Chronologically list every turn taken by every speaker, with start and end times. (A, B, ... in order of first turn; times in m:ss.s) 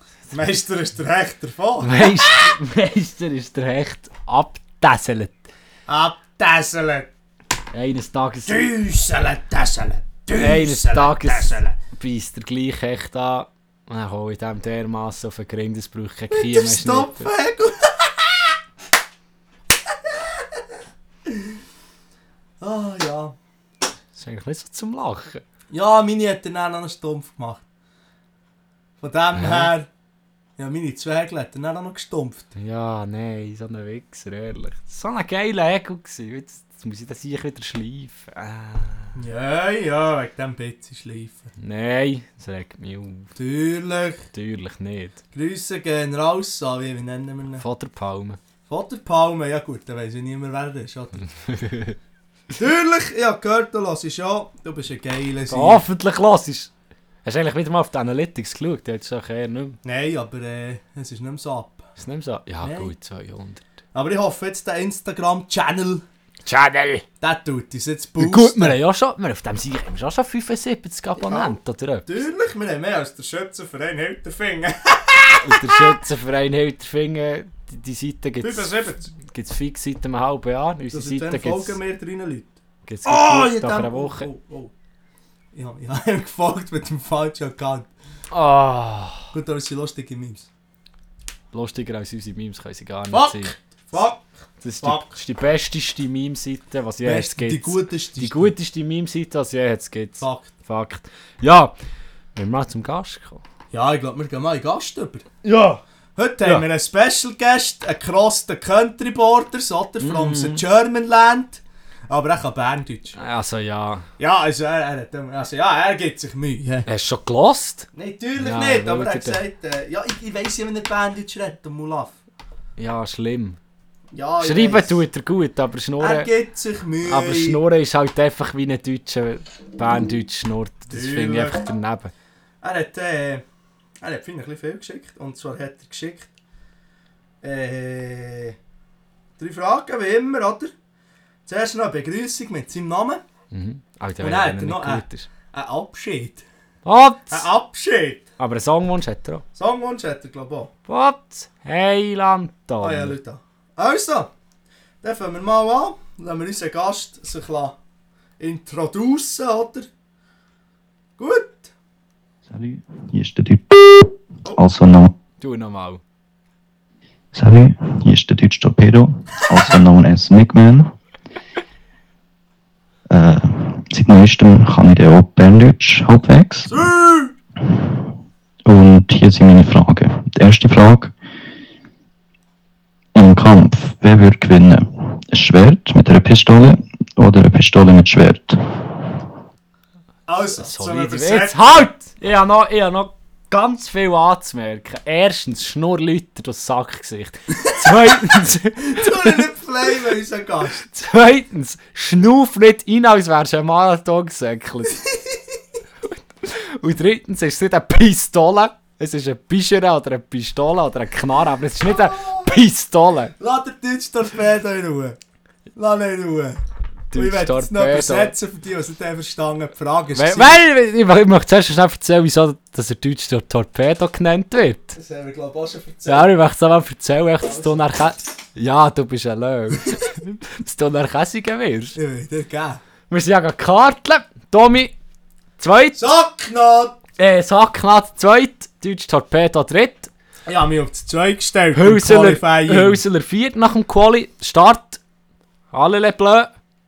0:00.3-0:02.5 A
0:01.8-0:05.4 B
0:05.9-0:07.1 A
0:07.7-0:08.6 B
0:08.4-0:11.8 A
0:10.4-0:17.3 B
0:16.3-0:18.6 A
0:19.9-0:20.6 A
0:21.2-0:21.6 A
0:22.6-0:23.3 A
0:24.1-0:25.4 B
0:25.7-0:27.6 A
0:29.0-0:29.9 A
0:29.3-0:29.7 B
0:30.6-0:32.5 A
0:32.5-0:39.2 B
0:39.2-0:41.5 A
0:41.6-0:43.3 B
0:43.4-0:44.3 A
0:44.3-0:45.2 B
0:45.3-0:47.6 A
0:47.6-0:48.4 B
0:48.7-0:51.2 A
0:51.2-0:52.0 B
0:52.6-0:55.8 A
0:55.5-0:56.7 B
0:57.2-0:59.8 B
0:59.8-1:01.8 A
1:02.0-1:03.6 B
1:02.6-1:02.9 A
1:03.9-1:06.0 A
1:06.4-1:07.0 B
1:07.2-1:08.8 A
1:08.2-1:12.2 B
1:11.2-1:16.0 A
1:15.4-1:21.8 B
1:18.4-1:19.1 A
1:20.9-1:24.7 A
1:22.8-1:24.3 B
1:25.5-1:27.9 A
1:28.3-1:29.3 B
1:29.3-1:30.5 A
1:31.5-1:33.5 B
1:33.1-1:34.2 A
1:34.6-1:41.7 B
1:34.8-1:35.1 A
1:37.0-1:38.5 A
1:40.2-1:40.5 A
1:42.3-1:43.4 B
1:43.7-1:45.2 A
1:45.4-1:45.8 B
1:46.2-1:53.2 A
1:50.0-1:50.6 B
1:53.1-1:54.0 B
1:54.2-1:56.9 A
1:56.9-1:59.4 B
1:57.9-2:02.2 A
2:02.8-2:03.6 B
2:04.1-2:05.0 A
2:04.4-2:06.3 B
2:06.0-2:07.6 A
2:07.0-2:12.1 B
2:10.9-2:11.6 A
2:12.6-2:13.4 A
2:14.0-2:16.3 A
2:17.4-2:18.6 A
2:19.4-2:20.7 A
2:21.4-2:23.2 A
2:23.5-2:25.3 B
2:24.2-2:26.4 A
2:26.8-2:27.5 B
2:27.3-2:28.2 A
2:28.4-2:29.4 B
2:29.5-2:30.7 A
2:30.9-2:33.2 B
2:32.8-2:34.3 A
2:35.0-2:37.8 A
2:38.4-2:39.9 A
2:41.2-2:41.7 A
2:42.4-2:45.1 C
2:45.4-2:46.0 B
2:47.3-2:50.9 C
2:53.1-2:56.9 C
2:56.7-2:57.3 A
2:57.6-3:01.1 C
3:03.1-3:09.2 C
3:10.3-3:11.6 A
3:10.5-3:19.5 B
3:17.8-3:20.8 A
3:20.8-3:25.0 B
3:25.0-3:25.4 A
3:26.4-3:33.3 B
3:31.8-3:32.5 A
3:33.4-3:35.2 A
3:35.7-3:36.6 A
3:37.1-3:38.3 B
3:37.1-3:40.6 A
3:40.1-3:45.0 B
3:44.9-3:46.3 A
3:46.0-3:52.0 B
3:47.4-3:47.9 A
3:51.9-3:52.8 A
3:53.1-3:54.9 B
3:55.6-3:56.0 B
3:55.9-3:57.0 A
3:57.2-4:00.1 B
4:00.4-4:03.0 A
4:01.7-4:05.0 B
4:05.7-4:06.5 B